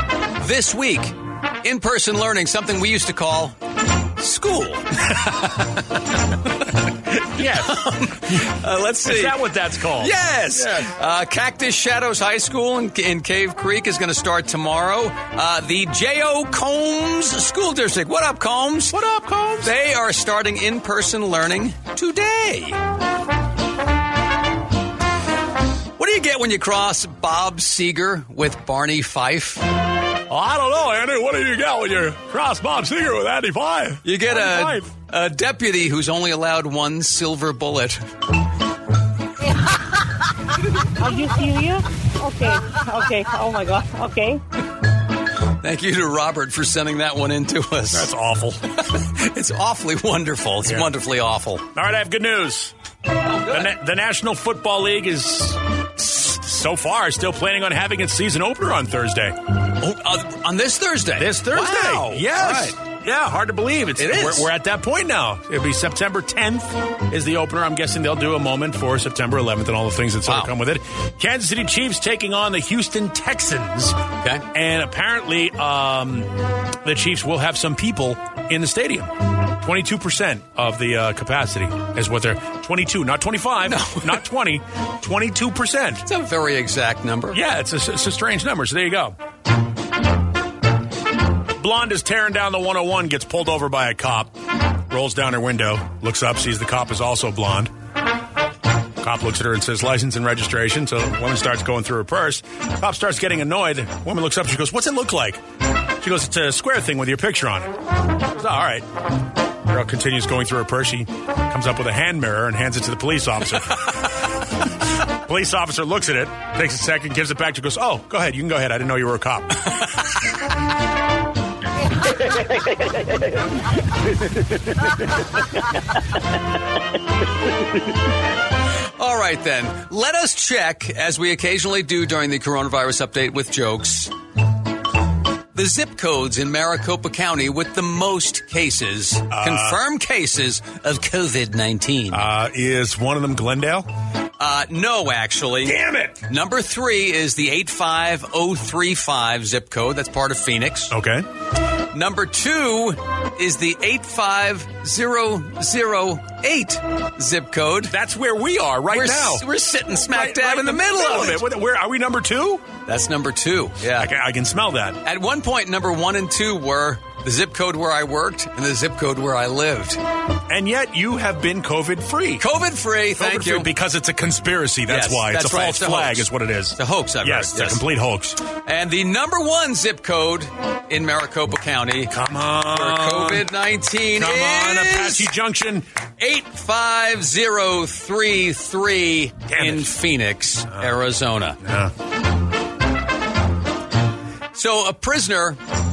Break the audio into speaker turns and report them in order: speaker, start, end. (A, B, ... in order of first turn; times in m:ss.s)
0:00.4-0:03.5 A
0:04.2-0:04.9 A
0:07.4-0:07.8 B
0:07.4-0:09.4 A
0:09.0-0:10.9 B
0:10.0-0:19.0 A
0:18.9-0:19.7 B
0:19.6-0:22.8 A
0:26.0-0:29.7 A
0:30.3-0:34.9 B
0:34.0-0:38.0 A
0:41.0-0:44.4 C
0:45.6-0:48.1 A
0:47.9-0:48.6 B
0:48.9-0:51.6 A
0:51.7-0:52.7 B
0:53.5-0:59.4 B
0:59.8-1:02.8 A
1:01.2-1:14.0 B
1:04.0-1:04.5 A
1:10.3-1:10.5 A
1:14.2-1:14.4 A
1:14.5-1:16.3 B
1:16.8-1:26.0 B
1:23.6-1:24.2 A
1:26.0-1:27.4 A
1:27.3-1:29.2 B
1:31.6-1:34.3 B
1:34.9-1:37.7 B
1:39.0-1:45.4 B
1:46.0-1:48.8 B
1:49.6-1:54.1 B
1:55.2-2:00.0 B
2:09.0-2:14.1 A
2:15.5-2:22.2 A
2:19.3-2:19.8 B
2:22.1-2:23.9 B
2:24.4-2:30.9 A
2:25.6-2:26.2 B
2:30.9-2:31.2 B
2:31.9-2:37.9 A
2:37.9-2:39.4 B
2:38.9-2:41.4 A
2:40.1-2:42.6 B
2:42.9-2:44.1 A
2:43.9-2:45.0 B
2:45.0-2:50.0 A
2:50.5-2:52.4 B
2:52.4-2:53.7 A
2:53.2-2:58.4 B
2:54.9-2:57.8 A
2:58.6-3:02.1 A
3:02.1-3:03.5 B
3:02.7-3:05.3 A
3:04.2-3:05.8 B
3:06.2-3:11.6 A
3:09.5-3:09.9 B
3:11.6-3:11.9 B
3:14.5-3:15.6 A